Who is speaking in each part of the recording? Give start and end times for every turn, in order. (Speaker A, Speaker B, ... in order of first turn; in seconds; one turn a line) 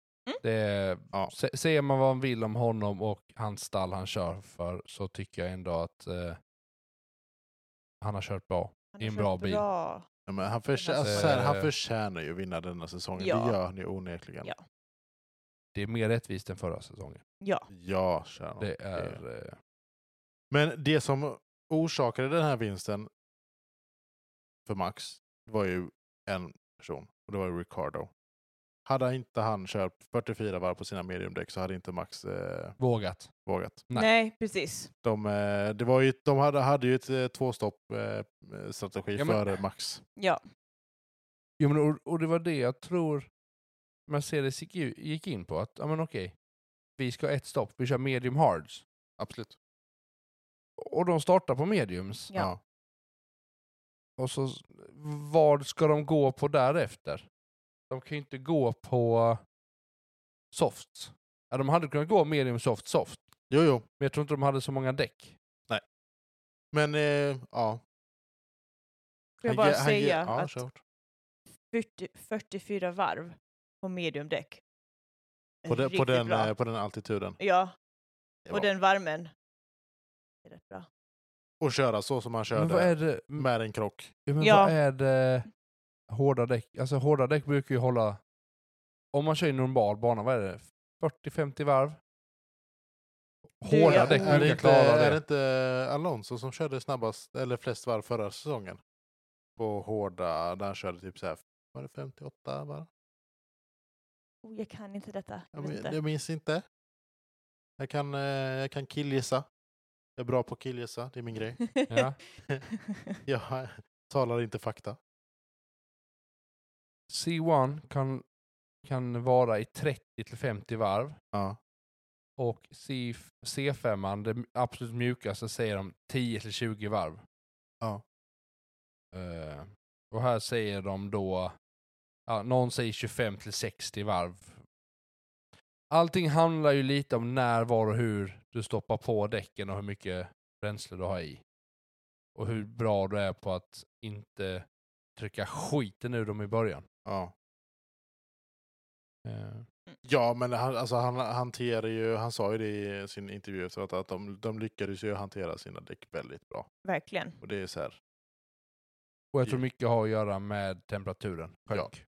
Speaker A: 0.4-6.4
Speaker A: 8.0-9.6
Speaker B: 8.9-10.1
Speaker C: 10.3-14.5
Speaker B: 10.8-11.4
Speaker A: 11.1-11.7
Speaker B: 13.2-13.6
Speaker A: 15.7-17.2
Speaker B: 17.4-17.7
Speaker C: 17.7-19.2
Speaker A: 18.6-19.6
Speaker C: 20.5-23.1
Speaker C: 24.6-28.1
Speaker C: 28.9-32.8
Speaker A: 32.8-33.3
Speaker C: 33.4-33.8
Speaker B: 33.9-34.9
Speaker C: 35.0-40.0
Speaker A: 39.1-39.6
Speaker A: 41.6-43.3
Speaker A: 44.1-46.3
Speaker A: 47.0-48.8
Speaker C: 49.2-49.5
Speaker A: 50.8-52.3
Speaker C: 52.3-52.6
Speaker A: 54.2-57.2
Speaker A: 57.9-59.4
Speaker A: 60.5-63.3
Speaker C: 63.5-63.8
Speaker A: 64.0-65.3
Speaker C: 66.7-67.8
Speaker B: 69.4-70.6
Speaker C: 69.4-70.8
Speaker B: 71.7-74.6
Speaker B: 75.6-76.5
Speaker C: 75.7-77.4
Speaker B: 77.4-77.7
Speaker B: 78.5-79.3
Speaker B: 80.4-80.9
Speaker C: 81.6-84.1
Speaker A: 82.5-83.5
Speaker A: 84.2-85.5
Speaker B: 84.4-84.8
Speaker A: 86.1-88.2
Speaker A: 89.1-92.0
Speaker A: 93.6-95.2
Speaker B: 93.7-94.6
Speaker C: 93.8-98.8
Speaker C: 99.6-102.9
Speaker B: 104.4-106.0
Speaker C: 105.5-106.6
Speaker C: 107.8-109.4
Speaker C: 110.2-111.6
Speaker B: 111.6-112.1
Speaker A: 111.9-112.2
Speaker B: 112.7-113.2
Speaker C: 113.2-115.0
Speaker A: 117.1-118.2
Speaker A: 118.8-121.2
Speaker C: 121.3-121.6
Speaker A: 122.4-127.2
Speaker A: 129.1-131.5
Speaker A: 132.3-134.6
Speaker A: 135.9-141.4
Speaker A: 142.3-146.8
Speaker C: 147.0-147.3
Speaker A: 149.2-149.7
Speaker C: 150.0-156.7
Speaker B: 156.8-157.4
Speaker C: 157.4-157.9
Speaker A: 159.3-162.0